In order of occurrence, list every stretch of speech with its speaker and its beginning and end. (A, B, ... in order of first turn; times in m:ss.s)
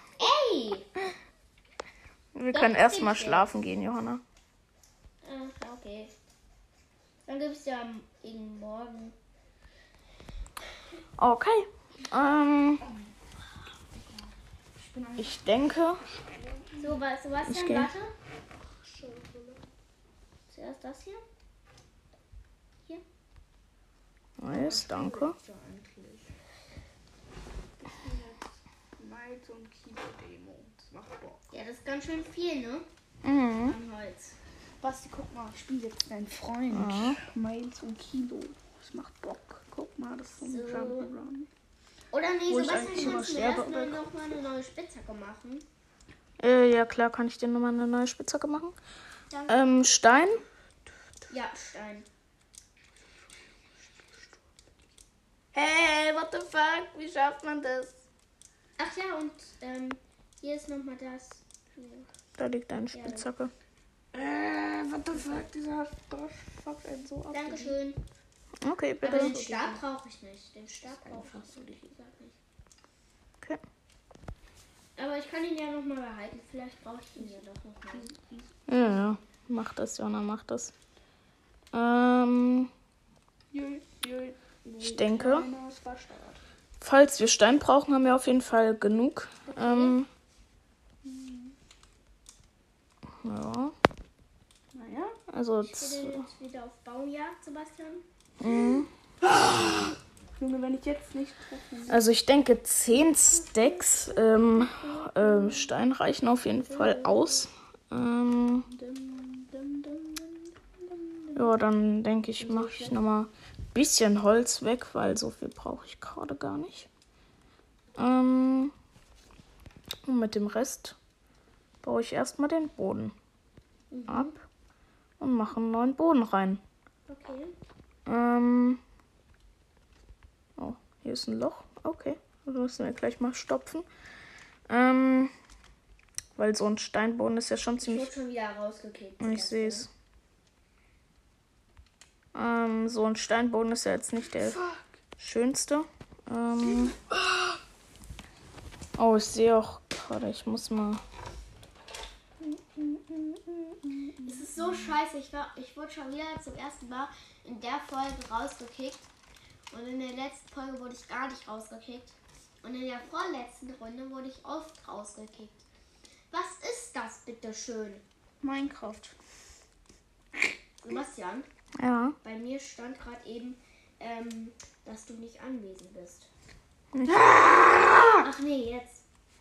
0:00.2-0:00.9 A
0:02.3-0:04.2 B
0:02.5-0:03.5 A
0:05.2-0:06.1 A
0:07.2-0:09.1 A
0:11.2-0:12.8 B
0:12.8-0:13.1 C
0:14.8-0:15.5 C
0:15.2-0:16.0 B
0:16.3-0:17.0 C
0:16.8-0:18.1 A
0:17.4-0:17.9 B
0:18.8-0:19.6 C
0:20.5-0:21.2 A
0:24.4-0:25.4 B
0:24.5-0:26.3 C
0:27.8-0:31.4 C
0:31.5-0:32.8 A
0:33.2-0:33.8 B
0:33.5-0:34.4 A
0:34.8-0:41.5 C
0:36.7-0:37.2 B
0:40.4-0:41.1 A
0:42.1-0:45.6 A
0:42.5-0:43.8 B
0:42.5-0:44.0 C
0:46.4-0:48.8 B
0:49.3-0:49.8 A
0:49.5-0:50.4 B
0:51.3-0:52.0 A
0:53.8-0:54.3 C
0:55.5-0:57.9 B
0:58.8-1:02.1 A
1:02.4-1:03.5 B
1:02.9-1:03.2 A
1:04.1-1:07.7 B
1:07.3-1:08.0 A
1:08.6-1:09.4 B
1:09.0-1:12.4 A
1:09.1-1:09.8 C
1:11.1-1:11.5 B
1:15.0-1:18.1 A
1:17.2-1:19.1 C
1:18.7-1:20.7 B
1:21.7-1:22.7 B
1:23.5-1:26.4 C
1:24.8-1:25.5 B
1:26.8-1:30.1 B
1:29.5-1:30.0 A
1:31.0-1:31.5 C
1:33.2-1:33.8 B
1:34.7-1:35.2 C
1:35.3-1:36.2 B
1:35.6-1:38.0 A
1:38.4-1:38.9 B
1:39.3-1:42.0 C
1:41.9-1:48.7 B
1:46.7-1:47.4 C
1:48.7-1:51.5 C
1:51.3-1:56.9 B
1:52.4-1:53.0 C
1:58.0-1:58.7 B
2:00.0-2:01.0 B
2:01.8-2:03.1 B
2:03.9-2:04.4 A
2:04.1-2:04.4 B
2:05.2-2:06.6 B
2:07.1-2:07.5 A
2:08.0-2:08.8 B
2:10.6-2:13.8 B
2:14.7-2:15.3 B
2:16.4-2:18.1 B
2:17.8-2:19.9 A
2:19.2-2:19.9 B
2:22.3-2:24.6 B
2:24.4-2:24.9 C
2:25.2-2:27.0 B
2:29.0-2:31.0 B
2:32.4-2:34.9 C
2:34.2-2:39.0 A
2:39.7-2:45.6 A
2:46.3-2:48.0 A
2:48.4-2:49.1 C
2:50.8-2:51.5 A
2:51.8-2:52.2 B
2:52.2-2:56.3 A
2:56.9-2:58.1 B
2:57.1-2:58.2 C
2:58.2-2:59.0 A